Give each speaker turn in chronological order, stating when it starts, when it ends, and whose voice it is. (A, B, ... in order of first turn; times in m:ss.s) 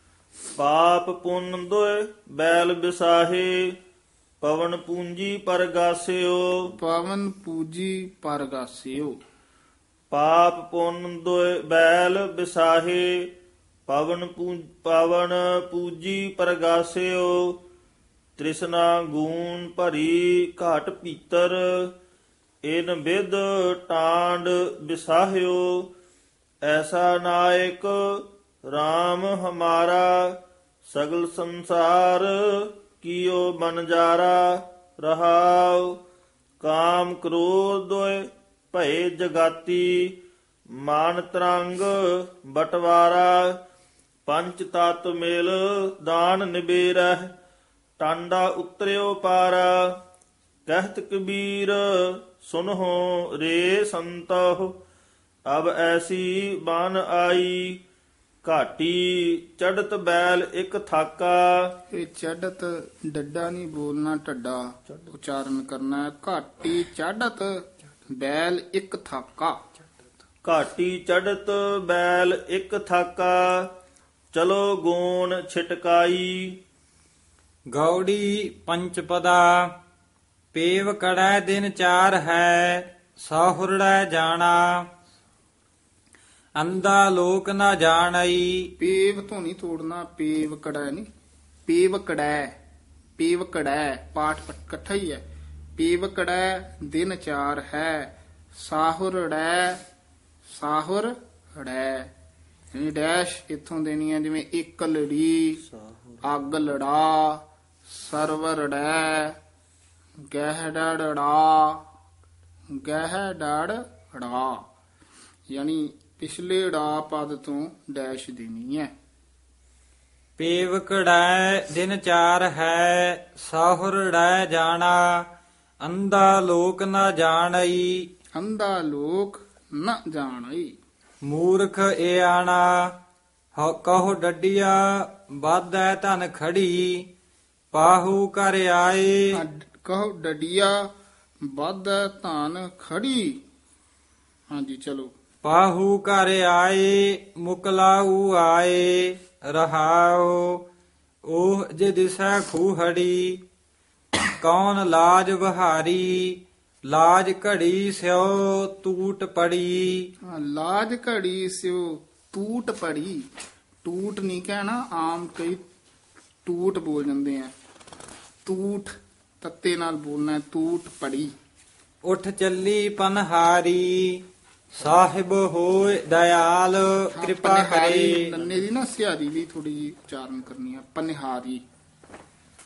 0:00.6-0:03.6 A
0:04.4-0:06.5 A
0:06.8-0:09.2 B
0:10.1-0:13.1 A
0:13.9-0:17.4 A
0:18.4-0:21.8 A
0:22.7-0:25.9 A
0:26.6-0:27.9 A
0:28.7-0:30.3 A
0:30.9-0:35.9 A
0:36.6-0:40.0 A
0:40.8-0:43.4 A
0:44.3-0:47.3 A
0:48.0-0:49.7 A
0:50.7-0:54.7 A
0:55.5-0:57.8 A
0:58.4-1:01.5 A
1:01.9-1:09.6 B
1:10.4-1:13.6 A
1:14.3-1:16.6 A
1:17.7-1:19.6 C
1:20.5-1:24.9 C
1:26.6-1:28.7 C
1:28.8-1:31.1 B
1:31.6-1:32.5 B
1:33.2-1:35.2 B
1:35.8-1:39.8 B
1:40.4-1:42.1 B
1:42.7-1:45.6 B
1:45.7-1:46.2 A
1:46.2-1:49.4 B
1:50.3-1:51.8 B
1:52.7-1:54.6 B
1:55.5-1:58.9 B
2:00.4-2:05.3 C
2:05.8-2:08.0 C
2:08.3-2:10.7 B
2:11.2-2:12.9 C
2:13.6-2:17.0 C
2:17.7-2:19.4 C
2:19.3-2:20.8 B
2:21.5-2:23.4 B
2:24.5-2:25.1 B
2:25.4-2:30.6 C
2:31.2-2:33.4 C
2:34.4-2:40.1 C
2:40.3-2:43.2 B
2:43.8-2:45.6 B
2:46.4-2:47.5 B
2:48.4-2:51.3 B
2:52.0-2:54.2 C
2:54.8-2:58.4 C
2:57.2-3:01.6 B